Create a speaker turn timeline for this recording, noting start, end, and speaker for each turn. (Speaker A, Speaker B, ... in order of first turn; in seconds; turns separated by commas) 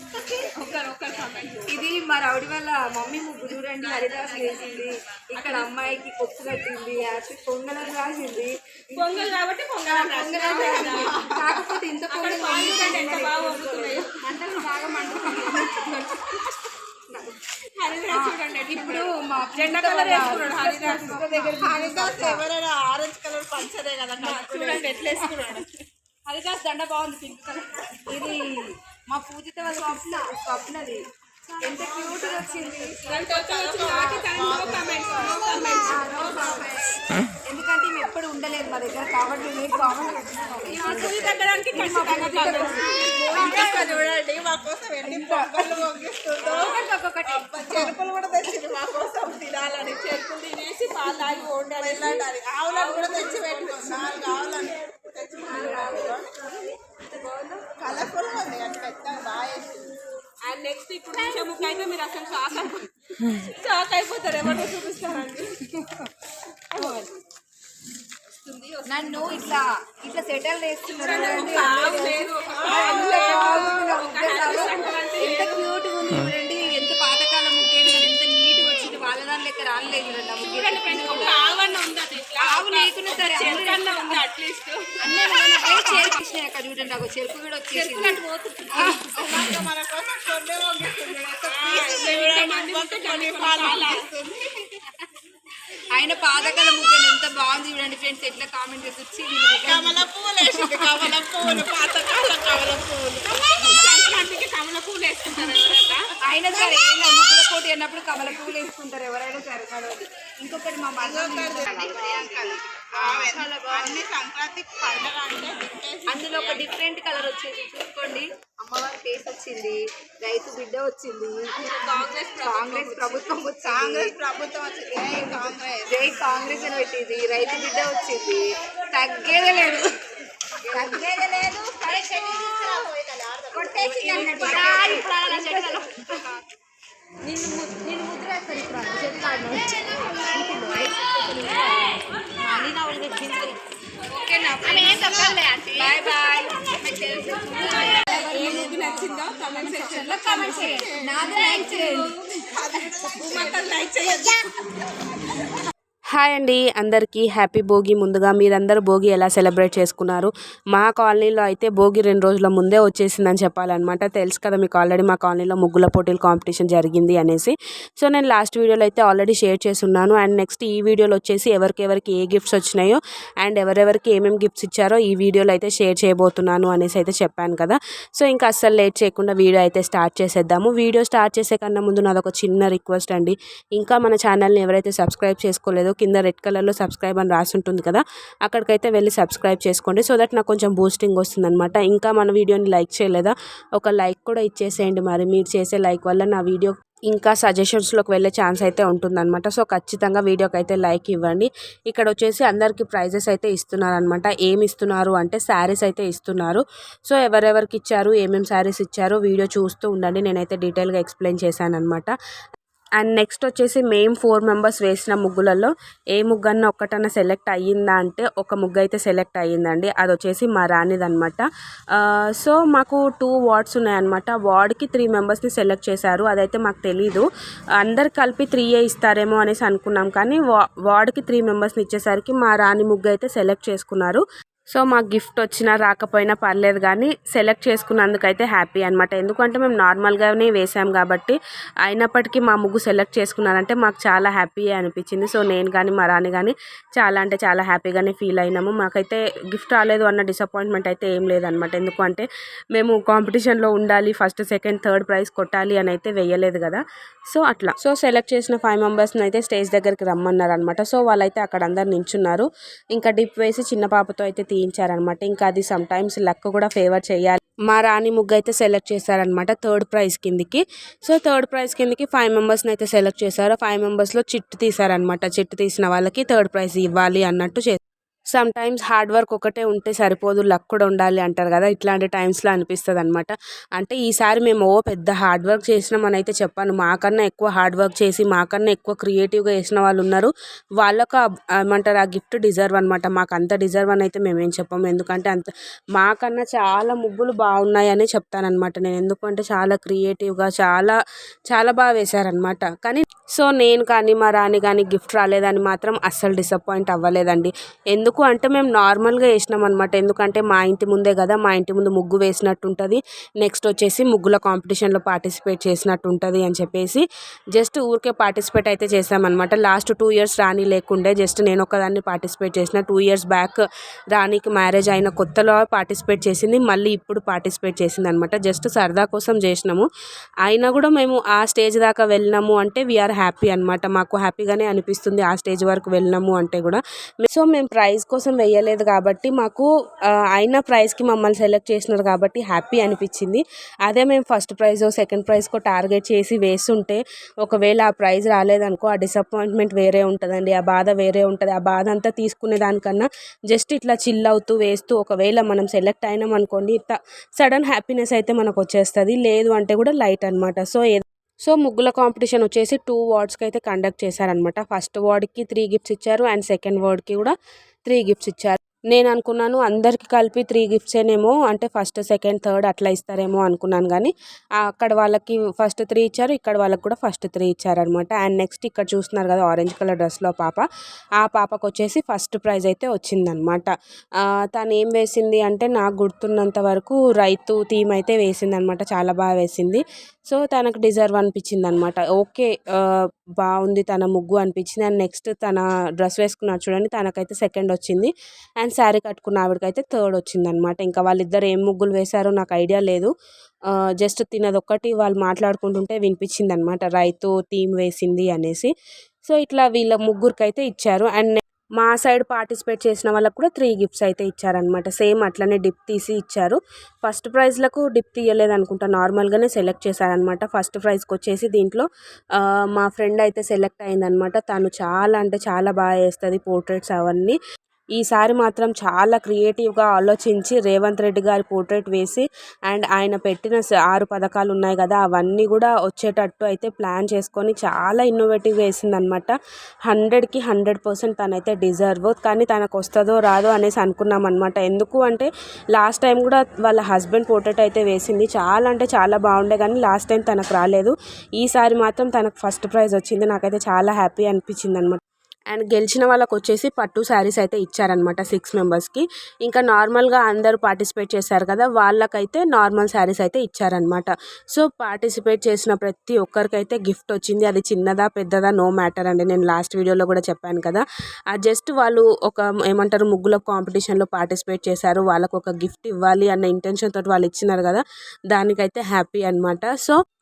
Speaker A: 0.1-0.5, Speaker B: 0.5-1.8, Speaker A: 1.7-16.0, Speaker B: 3.8-5.9, Speaker B: 8.9-16.7, Speaker C: 11.0-11.5, Speaker B: 17.8-21.6, Speaker A: 18.1-22.4, Speaker C: 21.6-25.6, Speaker B: 24.2-25.7, Speaker A: 26.3-31.1, Speaker A: 31.6-34.5, Speaker B: 33.1-36.5, Speaker C: 33.2-37.0, Speaker A: 35.9-44.1, Speaker B: 40.7-44.0, Speaker C: 43.1-50.1, Speaker A: 45.1-45.9, Speaker A: 46.4-48.0, Speaker B: 49.8-54.0, Speaker C: 51.5-56.3, Speaker A: 55.5-57.7, Speaker B: 55.6-55.9, Speaker C: 57.8-60.0, Speaker B: 60.4-65.6, Speaker C: 64.5-65.3, Speaker A: 65.8-66.0, Speaker B: 66.8-67.0, Speaker A: 66.8-67.1, Speaker B: 68.5-69.6, Speaker A: 68.8-81.4, Speaker B: 70.9-75.7, Speaker C: 71.3-72.1, Speaker B: 80.4-86.1, Speaker C: 81.3-81.9, Speaker A: 82.4-84.2, Speaker A: 85.0-89.7, Speaker B: 87.9-89.0, Speaker C: 89.0-94.6, Speaker A: 91.2-91.6, Speaker B: 91.5-94.1, Speaker A: 95.9-101.2, Speaker C: 99.6-106.1, Speaker B: 103.6-106.0, Speaker A: 106.2-114.0, Speaker C: 111.0-116.7, Speaker A: 116.1-124.2, Speaker B: 121.6-123.4, Speaker C: 123.6-126.8, Speaker A: 125.1-130.0, Speaker A: 130.7-131.3, Speaker C: 130.8-135.8, Speaker A: 133.5-136.3, Speaker C: 137.3-137.9, Speaker A: 137.5-143.6, Speaker C: 139.6-140.8, Speaker A: 144.1-152.2, Speaker B: 144.3-145.4, Speaker B: 147.1-152.2, Speaker C: 150.5-151.5, Speaker C: 152.4-154.5, Speaker B: 153.1-154.5, Speaker D: 156.1-212.1, Speaker D: 213.0-227.3, Speaker D: 227.8-277.8, Speaker D: 278.3-301.0, Speaker D: 301.5-323.6, Speaker D: 324.1-329.9, Speaker D: 330.4-339.7, Speaker D: 340.3-367.4, Speaker D: 367.9-380.7, Speaker D: 381.2-383.7, Speaker D: 384.2-403.1, Speaker D: 404.0-408.7, Speaker D: 409.2-427.4, Speaker D: 428.0-439.4, Speaker D: 439.9-455.0, Speaker D: 455.5-480.0